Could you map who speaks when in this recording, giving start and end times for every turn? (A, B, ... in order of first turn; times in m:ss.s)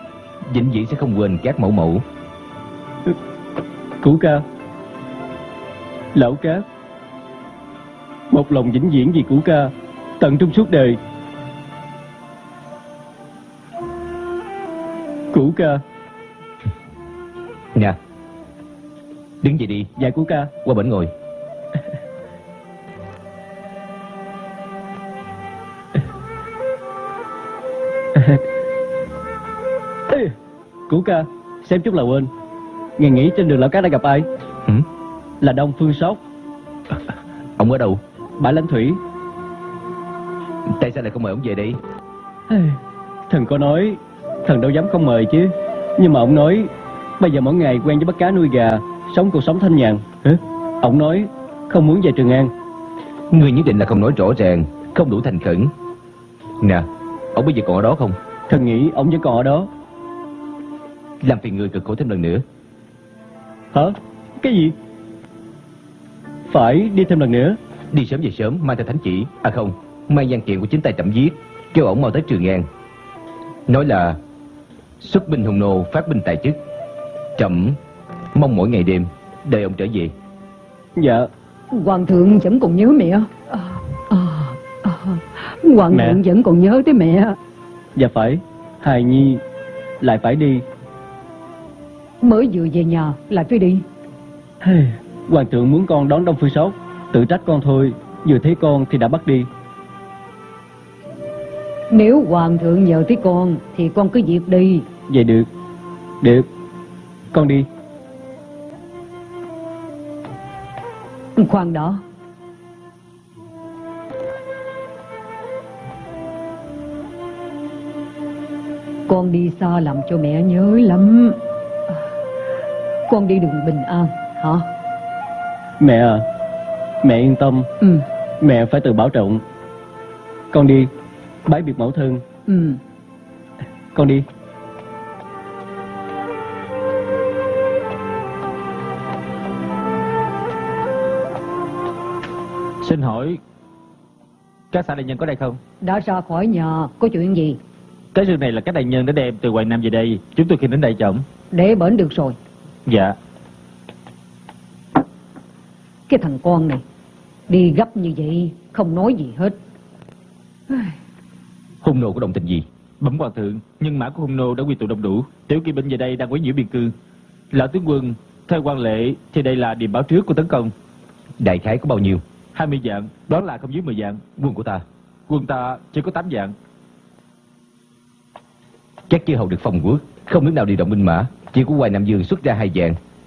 0:00.5-0:02.0 A
0:04.0-0:04.4 B
0:06.1-0:06.6 B
0:08.3-0:11.0 B
0:15.3-0:15.8 B
0:19.4-0:19.9 A
0:20.0-0:20.5 B
0:20.6-0:21.1 A
0:28.2-0:28.4 B
0:30.9-0:32.3 B
0:33.0-0:34.3 B
0:35.4-0:36.2 B
0:37.6-0:38.0 A
0:38.4-0:39.0 B
0:40.8-0:41.8 A
0:42.5-0:52.5 B
0:53.3-0:55.7 A
0:56.6-0:58.2 A
0:58.5-0:59.7 B
1:01.2-1:02.4 A
1:03.7-1:04.7 B
1:06.5-1:07.6 B
1:07.9-1:12.7 A
1:13.7-1:14.2 A
1:15.0-1:16.6 A
1:17.4-1:17.8 A
1:18.3-1:20.1 A
1:21.0-1:21.3 B
1:21.7-1:27.4 C
1:25.9-1:26.2 B
1:28.0-1:29.4 B
1:30.0-1:30.6 B
1:32.2-1:33.8 C
1:34.6-1:39.5 B
1:41.9-1:44.8 C
1:45.1-1:45.5 B
1:46.2-1:46.5 B
1:47.3-1:47.7 B
1:51.4-1:52.0 C
1:59.1-2:01.4 C
2:03.1-2:04.7 C
2:05.8-2:06.2 B
2:07.0-2:07.7 B
2:08.4-2:09.4 B
2:10.5-2:10.9 B
2:11.4-2:12.2 B
2:12.5-2:12.8 C
2:13.9-2:14.2 B
2:22.8-2:23.4 D
2:24.7-2:25.6 D
2:25.8-2:27.6 C
2:28.1-2:31.2 D
2:31.5-2:32.4 C
2:32.8-2:33.2 D
2:36.1-2:36.8 C
2:37.5-2:39.6 C
2:40.7-2:41.0 C
2:41.8-2:42.6 A
2:43.0-2:46.9 D
2:47.5-2:50.7 D
2:51.4-2:52.2 A
2:52.5-2:54.2 D
2:54.4-2:54.8 A
2:55.3-2:56.5 D
2:59.1-3:03.0 A